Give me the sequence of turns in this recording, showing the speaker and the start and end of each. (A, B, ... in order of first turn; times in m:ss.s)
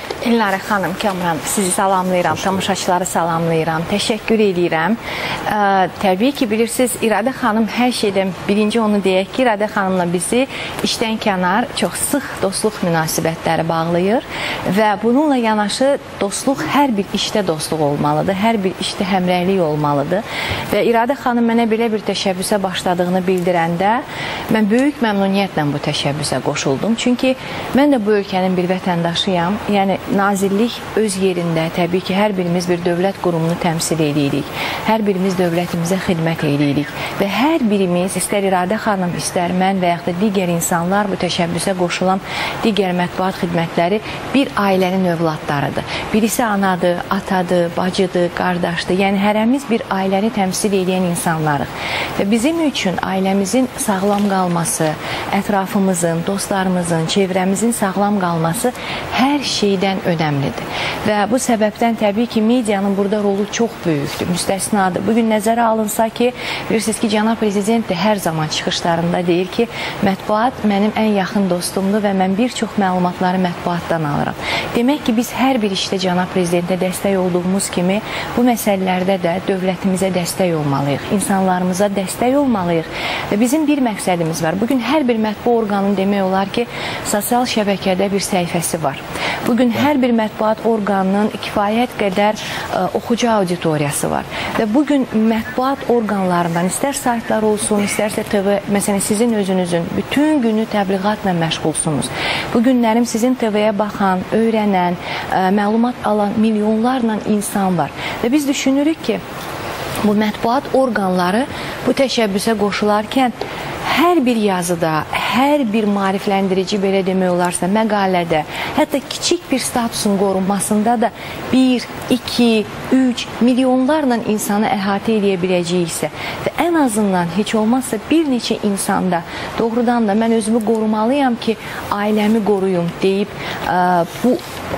0:00.2-1:49.2 A
1:50.0-1:53.3 A
1:53.8-2:14.4 A